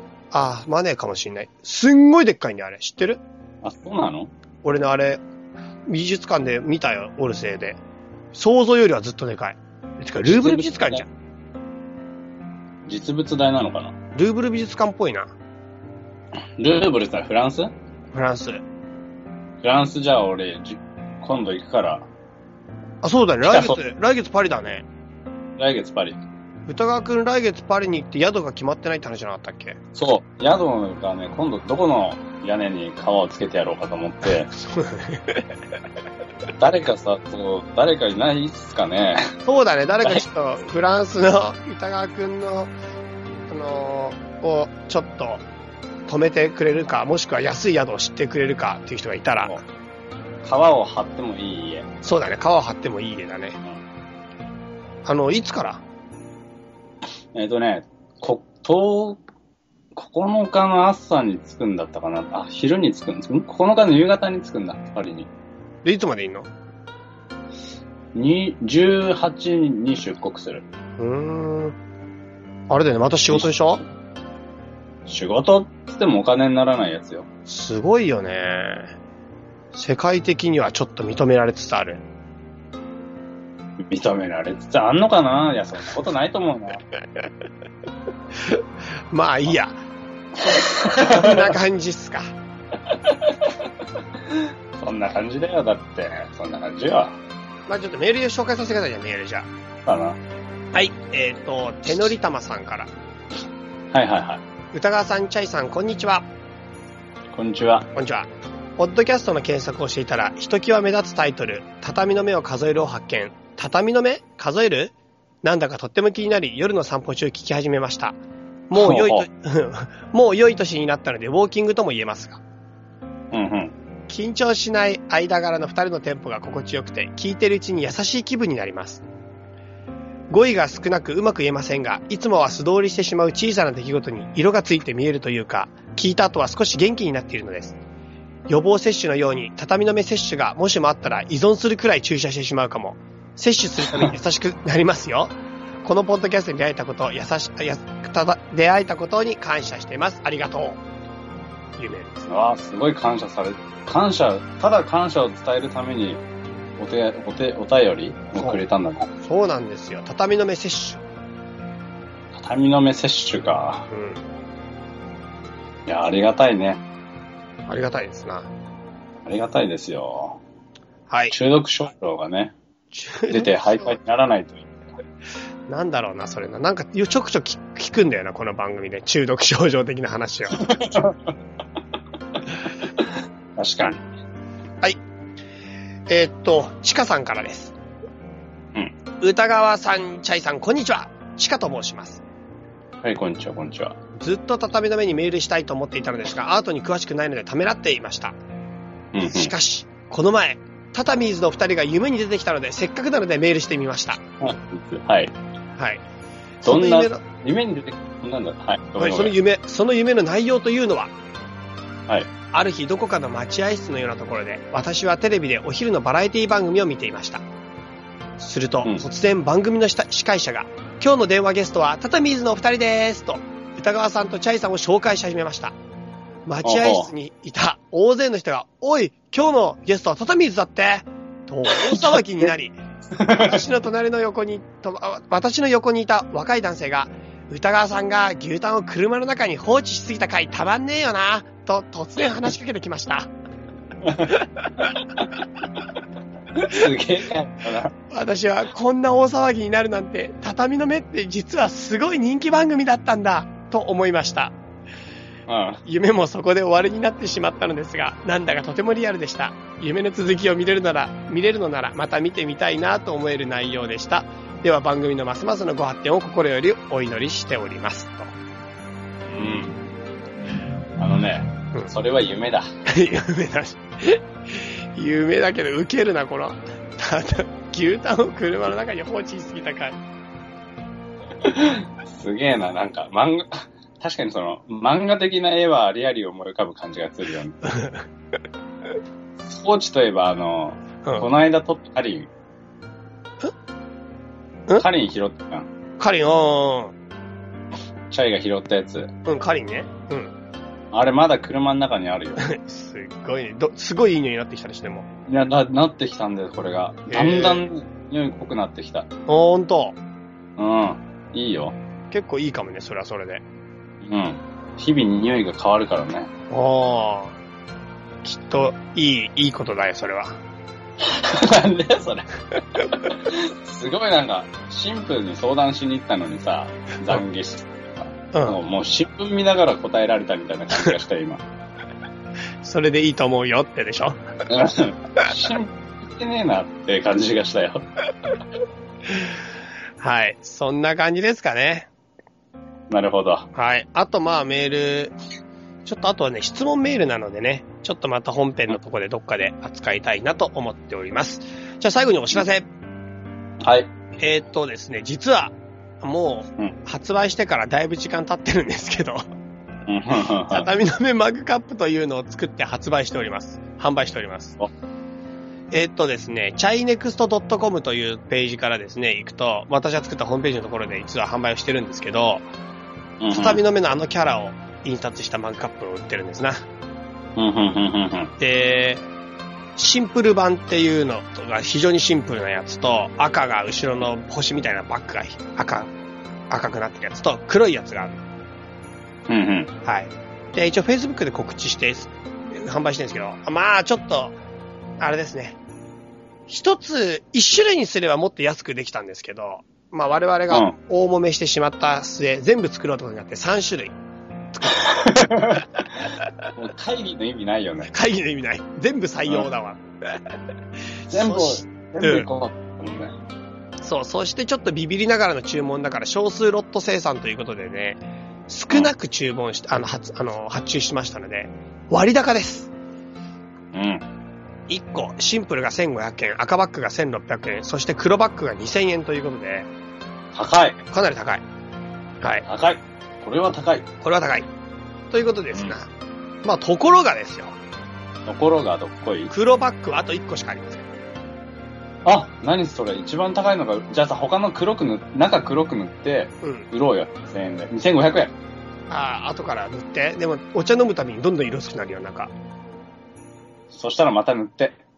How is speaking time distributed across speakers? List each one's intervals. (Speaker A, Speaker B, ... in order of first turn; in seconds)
Speaker A: 0.3-3.2, 4.6-5.2, 5.8-7.8, 8.3-11.1, 14.1-15.3, 18.1-18.6, 23.0-24.9, 26.7-29.8, 34.6-35.4, 39.4-42.7, 43.5-45.4, 46.1-49.6, 52.0-53.6, 55.0-55.8, 65.8-66.5, 71.0-71.8, 72.7-73.8, 77.5-78.9, 79.7-82.0, 89.1-89.8, 90.4-92.3, 97.7-99.5, 100.7-102.9, 104.7-106.2, 107.9-118.2, 118.7-122.4, 124.1-129.0, 130.3-137.8, 138.5-150.8, 151.8-152.3, 159.2-161.0, 163.9-164.2, 167.7-168.5, 171.1-171.3, 172.9-174.0, 175.7-180.7, 186.1-187.7, 189.2-192.2, 194.2-198.3, 199.2-204.2, 205.8-206.0, 206.6-207.2, 209.0-211.1, 212.5-217.4, 218.4-225.7, 226.4-243.3, 244.2-244.9, 248.1-254.5, 255.8-268.3, 272.9-280.0, 287.6-288.0, 296.0-296.9, 299.2-300.3, 302.4-305.1, 307.1-307.6, 309.3-310.0, 312.1-313.4, 316.5-317.4, 318.2-320.4, 328.3-328.6, 332.6-334.2, 340.0-341.9, 343.5-345.1, 345.8-352.7, 354.2-359.2, 360.5-364.6, 365.7-372.4, 373.3-376.6, 378.4-379.0, 379.8-385.9, 386.5-388.2, 389.8-394.4, 395.0-395.6, 396.5-403.9, 404.5-404.9, 407.9-409.8, 411.1-412.3, 413.8-422.7, 424.7-429.7, 430.9-431.4, 434.0-434.5, 435.1-435.9, 436.4-437.6, 439.3-440.9, 448.9-452.3
Speaker B: 3.6-4.3, 10.2-11.0, 12.8-13.9, 16.6-17.7, 19.6-22.1, 23.4-23.8, 25.6-26.2, 29.9-34.5, 36.5-39.3, 50.4-51.9, 57.3-59.2, 59.9-65.3, 68.1-70.6, 75.0-77.3, 83.8-86.8, 90.4-91.5, 92.8-93.7, 94.3-97.2, 99.8-100.2, 103.9-104.4, 107.3-107.9, 118.7-119.3, 123.3-123.7, 152.2-156.2, 156.8-159.1, 162.3-163.9, 165.8-166.8, 169.2-170.4, 171.3-172.5, 173.3-174.7, 180.6-181.3, 183.6-184.0, 193.0-193.9, 199.1-199.5, 204.4-205.3, 206.6-209.3, 226.6-227.1, 231.8-232.2, 233.1-233.6, 244.0-244.3, 246.5-247.9, 255.5-255.8, 269.2-269.9, 271.0-272.7, 281.4-287.6, 289.4-292.3, 294.8-295.7, 298.1-299.1, 300.9-302.4, 305.3-309.1, 310.6-311.8, 314.0-316.3, 321.0-331.4, 334.5-337.9, 342.9-343.5, 353.6-353.9, 359.9-360.7, 373.2-373.6, 377.4-378.3, 389.3-389.7, 400.5-400.7, 404.7-405.7, 406.6-407.9, 411.1-413.1, 423.7-424.1, 430.3-430.8, 432.4-433.9, 438.2-439.3, 442.0-448.3, 453.7-454.8